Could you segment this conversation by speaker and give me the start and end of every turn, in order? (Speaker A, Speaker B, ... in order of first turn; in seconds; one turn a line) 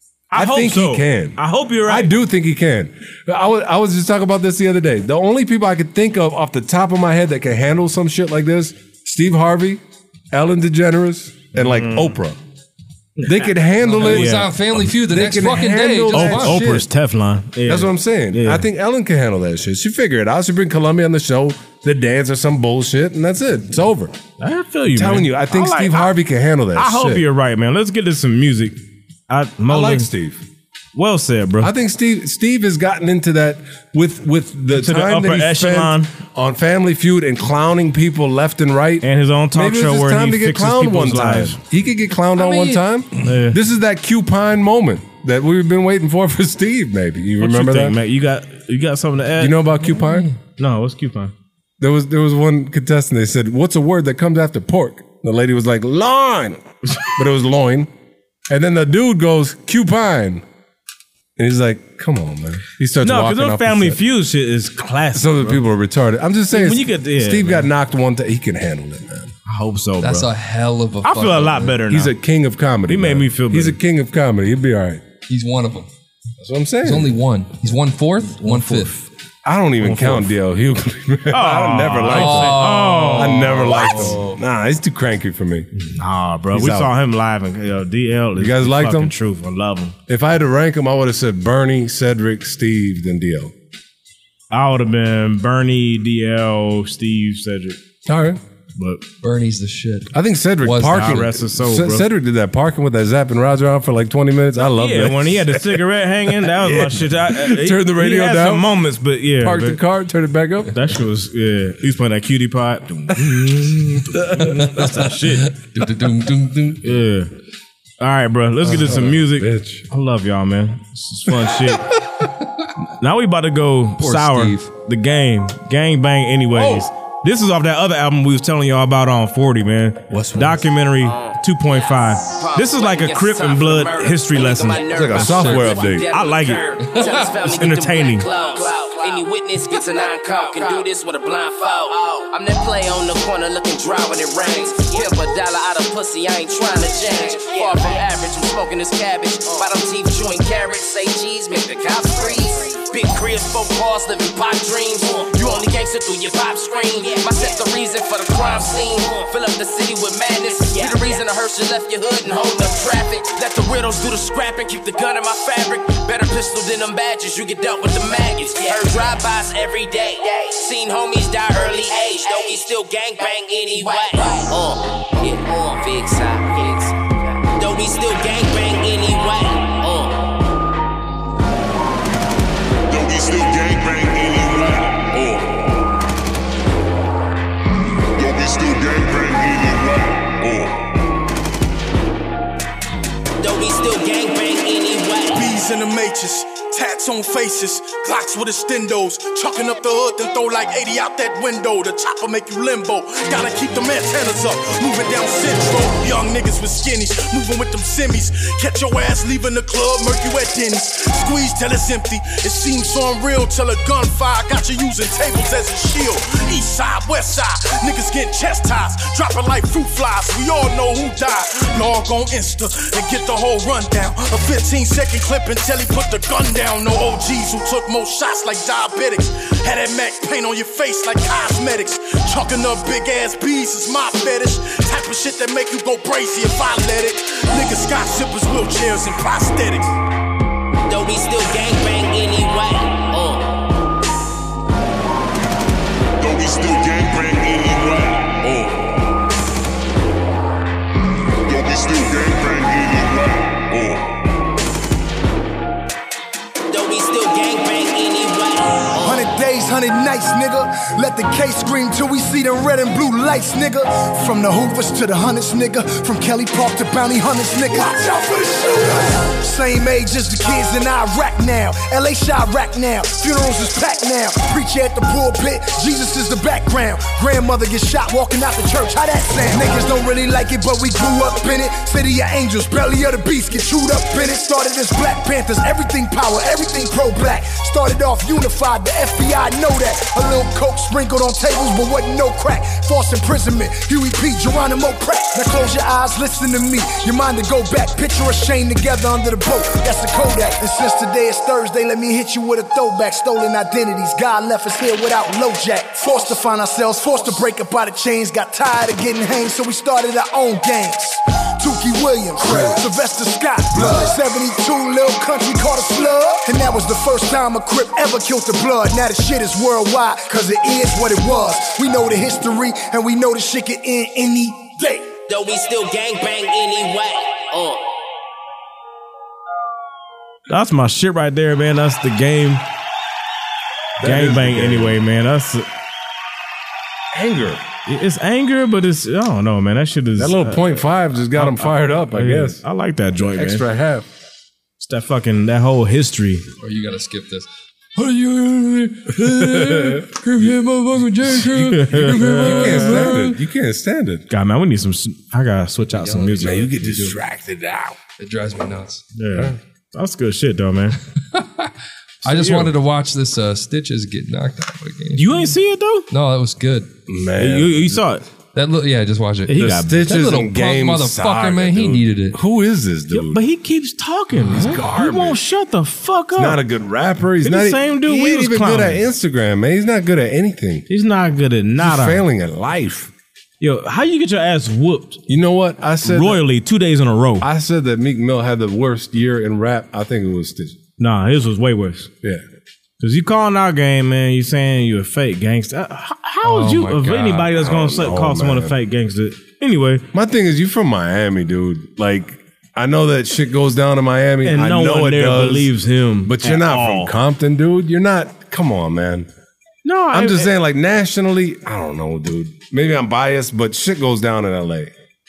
Speaker A: 0.3-2.1
Speaker B: 0.3-9.8
Speaker B: 10.3-12.4
Speaker A: 11.5-12.2
Speaker A: 13.2-14.5
Speaker B: 13.2-16.8
Speaker C: 13.9-16.6
Speaker A: 16.1-18.6
Speaker B: 17.6-24.1
Speaker A: 24.4-26.1
Speaker B: 24.9-27.2
Speaker A: 26.7-30.1
Speaker B: 29.7-30.4
Speaker A: 30.9-31.7
Speaker B: 31.6-48.0
Speaker A: 34.7-36.1
Speaker A: 39.0-41.6
Speaker C: 42.4-42.8
Speaker A: 43.2-43.6
Speaker A: 47.4-49.6
Speaker B: 49.4-50.3
Speaker C: 49.8-50.4
Speaker A: 50.6-51.3
Speaker B: 51.8-56.6
Speaker B: 57.1-57.9
Speaker B: 58.5-60.4
Speaker B: 61.4-64.0
Speaker A: 63.0-65.6
Speaker B: 65.1-69.3
Speaker A: 66.5-67.7
Speaker A: 69.5-70.3
Speaker C: 70.0-71.8
Speaker A: 71.0-72.1
Speaker B: 71.9-75.0
Speaker A: 72.9-73.8
Speaker C: 75.3-75.9
Speaker B: 76.4-77.1
Speaker C: 76.8-78.9
Speaker A: 78.4-79.0
Speaker B: 79.4-85.7
Speaker A: 79.8-80.3
Speaker A: 81.3-84.2
Speaker C: 82.1-84.4
Speaker A: 85.7-89.9
Speaker B: 86.5-86.9
Speaker B: 88.3-89.1
Speaker B: 90.1-93.5
Speaker A: 94.5-97.8
Speaker B: 98.0-98.4
Speaker A: 98.8-99.0
Speaker C: 99.2-101.3
Speaker B: 100.1-105.8
Speaker A: 100.8-102.1
Speaker A: 104.8-109.8
Speaker B: 106.4-108.7
Speaker B: 109.4-110.7
Speaker A: 110.7-115.5
Speaker C: 115.5-116.9
Speaker A: 116.8-117.3
Speaker A: 118.0-122.0
Speaker B: 118.7-119.8
Speaker A: 123.0-134.8
Speaker C: 124.0-124.7
Speaker B: 126.5-126.9
Speaker B: 130.1-130.7
Speaker D: 131.1-176.9
Speaker B: 134.9-136.1
Speaker C: 135.1-135.7
Speaker A: 136.1-136.8
Speaker C: 136.8-137.5
Speaker A: 137.4-138.3
Speaker D: 177.5-180.3
Speaker E: 182.9-185.9
Speaker E: 188.1-191.0
Speaker D: 193.4-195.3
Speaker F: 195.3-239.9
Speaker D: 240.8-243.6
Speaker E: 246.2-249.2
Speaker E: 251.4-254.2
Speaker D: 256.7-259.2
Speaker G: 259.0-325.1
Speaker D: 325.3-327.9
Speaker A: 330.5-332.6
Speaker B: 334.0-335.0
Speaker A: 334.0-335.7
Speaker B: 337.1-337.6
Speaker A: 337.9-343.6
Speaker B: 340.2-342.6
Speaker B: 343.4-344.1
Speaker A: 344.8-346.4
Speaker C: 346.6-353.4
Speaker B: 349.4-350.0
Speaker B: 351.5-354.2
Speaker A: 351.6-353.1
Speaker A: 354.3-357.1
Speaker C: 355.9-356.5
Speaker B: 356.4-358.0
Speaker C: 358.2-359.0
Speaker A: 359.1-361.0
Speaker C: 361.3-361.7
Speaker C: 362.2-365.6
Speaker A: 362.2-362.7
Speaker A: 365.1-366.1
Speaker C: 366.1-366.9
Speaker B: 367.1-368.0
Speaker A: 367.4-368.2
Speaker C: 368.5-372.4
Speaker A: 369.5-370.3
Speaker B: 369.6-373.4
Speaker A: 373.1-376.6
Speaker B: 374.4-375.4
Speaker B: 376.4-380.9
Speaker A: 377.4-379.0
Speaker A: 380.9-382.2
Speaker B: 381.8-383.1
Speaker A: 383.6-385.2
Speaker B: 385.3-386.4
Speaker A: 386.0-387.5
Speaker B: 387.4-390.8
Speaker A: 391.0-392.1
Speaker A: 393.0-400.1
Speaker C: 396.4-397.3
Speaker B: 397.2-398.8
Speaker B: 400.1-405.7
Speaker A: 404.4-407.1
Speaker B: 406.2-409.3
Speaker A: 409.8-410.5
Speaker B: 410.1-414.9